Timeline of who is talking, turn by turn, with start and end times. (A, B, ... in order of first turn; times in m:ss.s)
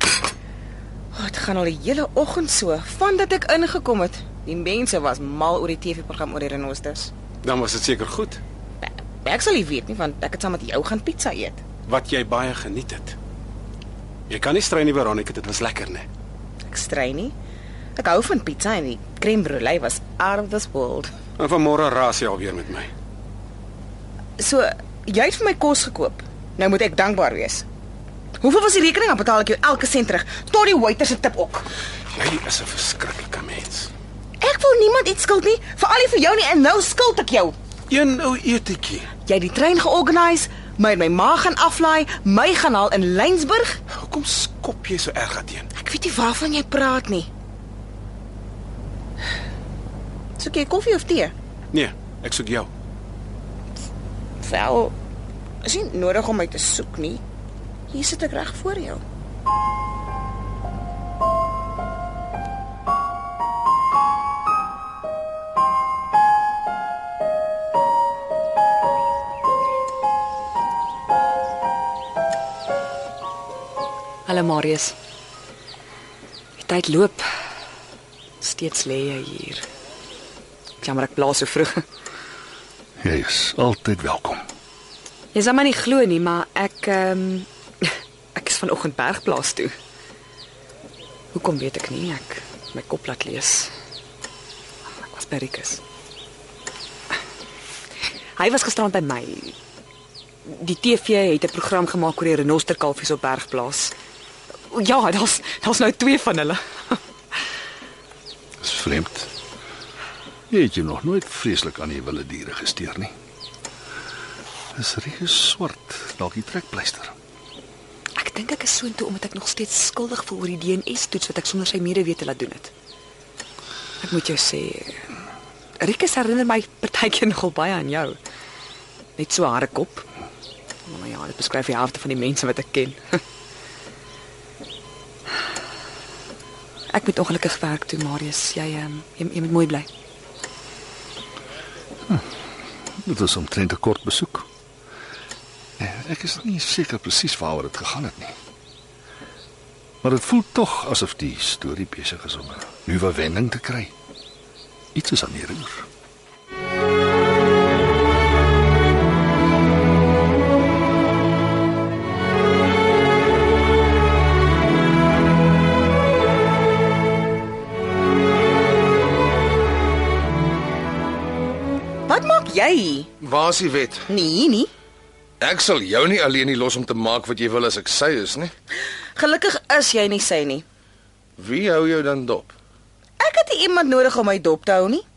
0:01.1-0:07.1 A
0:07.4-0:08.4 B
0:08.8-0:11.6 A
0:11.8-0:13.2 B
0:14.3-0:16.1 B
0:16.7-0:17.3 A
0:18.0-0:21.1 A
0:21.4-0:22.9 B
0:24.4-0:27.6 A
0:28.4-0:31.7 A
0:32.1-0:33.9 B
0:34.4-0:37.6 A
0:37.9-0:39.0 B
0:39.2-0:43.8 A
0:44.0-0:45.7 B
0:45.8-0:47.3 A
0:50.4-0:51.3 A
0:51.7-0:52.7 B
0:54.4-0:54.9 A
0:55.6-0:57.2 A
0:57.9-0:59.0 A
1:14.2-1:14.9 C
1:16.6-1:17.2 C
1:18.4-1:19.6 C
1:20.8-1:21.8 C
1:23.0-1:24.4 D
1:25.3-1:27.5 C
1:28.3-1:29.7 C
1:31.3-1:33.7 C
1:35.0-1:35.8 C
1:38.4-1:39.5 C
1:40.4-1:43.9 C
1:44.7-1:47.0 C
1:48.6-1:49.3 D
1:50.5-1:53.1 D
1:54.7-1:57.1 D
1:58.2-2:02.7 C
2:04.0-2:05.0 C
2:05.8-2:08.2 C
2:09.2-2:10.0 C
2:10.9-2:13.0 C
2:16.9-2:19.9 C
2:23.0-2:24.4 D
2:25.8-2:28.4 D
2:30.0-2:33.9 D
2:34.9-2:35.9 D
2:52.1-2:53.1 A
2:53.2-2:54.1 E
2:54.1-2:54.7 A
2:55.4-2:58.5 E
2:58.8-3:00.6 A
3:01.4-3:02.5 E
3:03.2-3:05.0 A